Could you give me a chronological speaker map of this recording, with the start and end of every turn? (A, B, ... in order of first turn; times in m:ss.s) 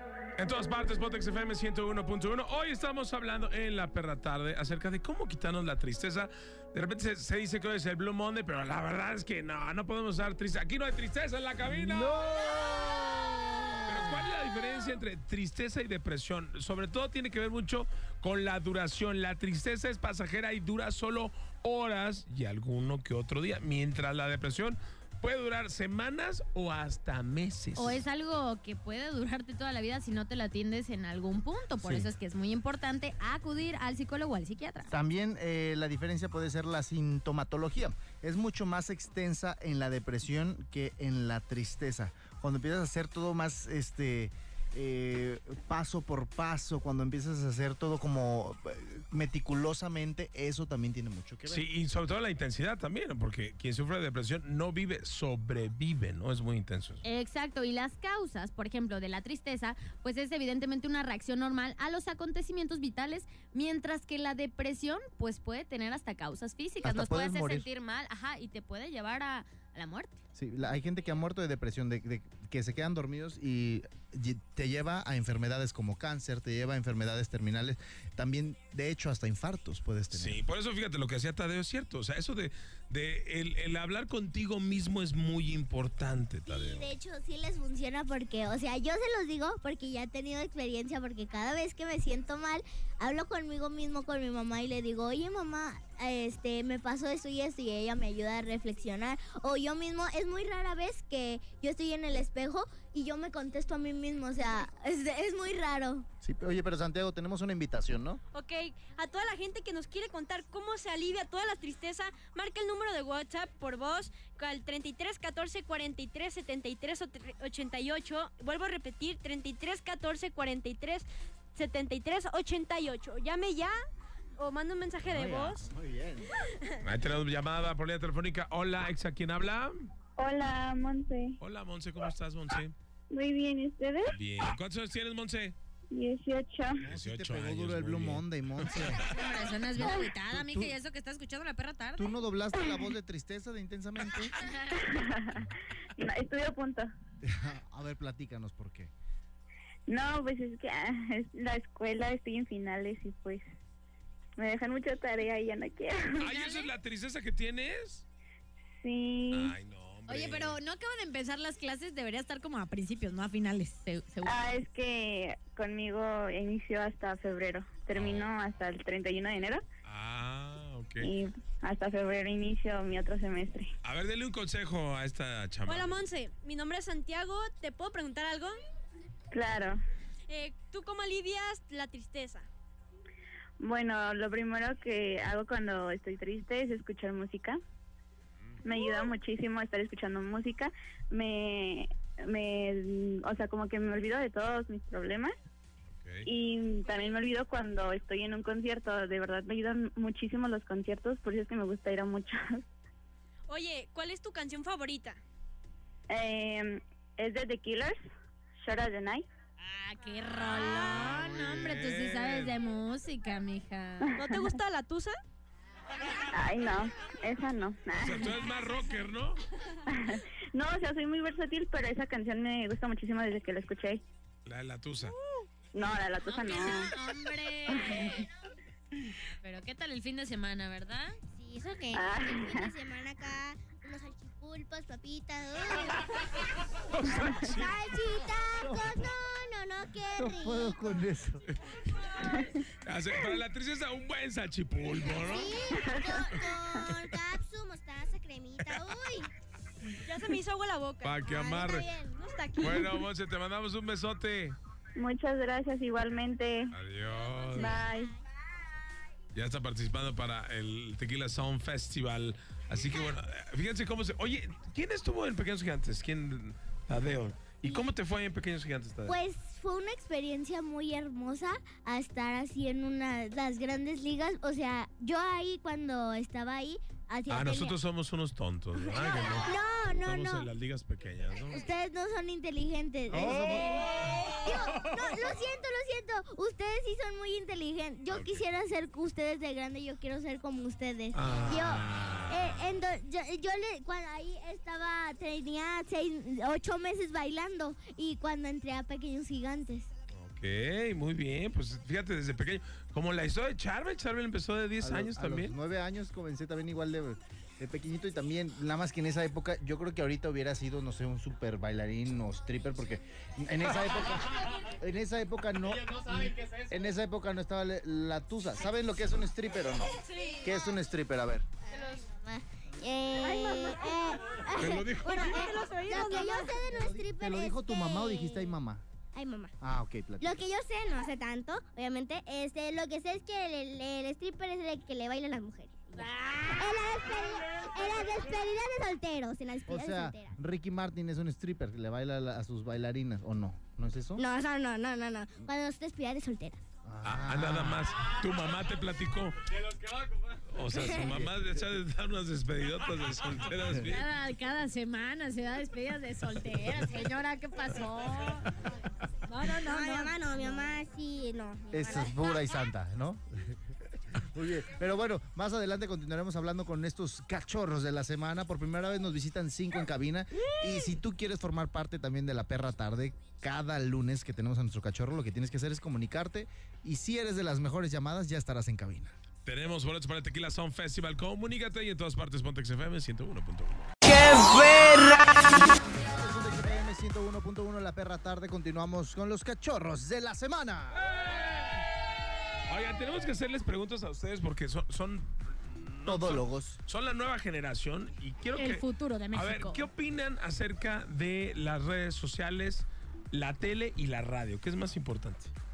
0:00.4-0:12.2 A
0:11.8-0:14.2 B
0:13.8-0:28.0 A
0:27.8-0:34.9 C
0:31.8-0:32.1 B
0:34.9-0:51.6 B
0:51.5-0:57.0 A
0:57.0-1:10.2 C
1:06.8-1:07.7 B
1:10.4-1:20.4 B
1:20.1-1:26.9 A
1:26.5-1:46.1 D
1:46.2-1:48.2 B
1:48.3-2:03.8 E
2:04.4-2:05.6 E
2:05.1-2:06.3 B
2:06.8-2:09.9 A
2:10.2-2:11.4 F
2:11.4-2:12.7 A
2:13.1-2:14.1 F
2:14.1-2:15.6 A
2:15.9-2:16.8 F
2:16.8-2:19.0 B
2:16.9-2:19.0 A
2:19.1-2:22.1 C
2:19.7-2:20.7 B
2:22.0-2:24.3 B
2:24.7-2:26.9 F
2:27.2-2:28.9 B
2:29.9-2:33.4 F
2:34.4-2:36.3 F
2:36.2-2:38.0 A
2:36.3-2:36.6 C
2:38.8-2:39.6 F
2:39.3-2:40.6 A
2:40.1-2:44.4 C
2:44.2-2:49.6 F
2:47.9-2:48.3 A
2:49.8-2:51.1 A
2:51.0-2:53.7 F
2:53.8-2:56.0 A
2:55.6-2:58.6 E
2:59.3-2:59.8 F
3:00.3-3:02.5 E
3:03.6-3:07.6 F
3:08.6-3:15.3 F
3:15.9-3:16.3 A
3:16.2-3:22.6 F
3:16.9-3:17.1 E
3:23.5-3:25.2 E
3:26.1-3:28.0 F
3:28.6-3:29.2 F
3:29.6-3:34.2 C
3:30.6-3:32.5 A
3:34.2-3:35.2 E
3:36.3-3:38.4 F
3:37.9-3:39.4 A
3:39.9-3:44.0 F
3:44.4-3:45.1 A
3:45.7-3:46.9 F
3:46.2-3:48.3 C
3:47.7-3:48.2 F
3:49.4-3:51.2 C
3:51.3-3:56.1 D
3:51.9-3:52.7 F
3:56.9-3:57.8 A
3:57.5-4:00.8 D
3:58.6-3:59.0 B
4:00.1-4:01.4 B
4:02.8-4:05.8 A
4:05.2-4:09.3 D
4:05.7-4:06.9 F
4:10.0-4:11.3 E
4:11.0-4:11.9 A
4:11.2-4:12.3 D
4:12.1-4:13.0 E
4:12.6-4:14.6 A
4:15.0-4:16.7 F
4:16.7-4:17.8 A
4:17.5-4:18.1 D
4:17.5-4:18.1 F
4:19.3-4:29.2 A
4:29.1-4:37.8 D
4:37.3-4:41.7 A
4:38.9-4:40.5 D
4:41.5-4:59.9 D
4:43.1-4:45.2 A
4:43.1-4:43.8 B
4:48.1-4:48.4 A
4:51.1-4:52.6 A
5:00.1-5:05.5 A
5:04.8-5:21.5 B
5:20.1-5:20.4 E
5:21.7-5:28.5 D
5:23.2-5:24.0 E
5:24.6-5:25.5 A
5:25.1-5:26.5 E
5:26.8-5:28.8 B
5:29.1-5:29.5 D
5:29.6-5:30.4 B
5:30.2-5:40.4 D
5:39.7-5:44.2 B
5:44.2-5:46.6 D
5:46.8-5:47.9 B
5:47.0-5:54.0 A
5:51.0-5:51.3 B
5:53.8-5:58.5 C
5:59.3-6:00.2 C
5:59.5-6:02.2 D
6:01.7-6:03.6 B
6:04.1-6:19.1 B
6:19.4-6:23.9 A
6:26.0-6:31.1 B
6:32.7-6:45.5 A
6:36.0-6:36.8 B
6:38.6-6:39.8 C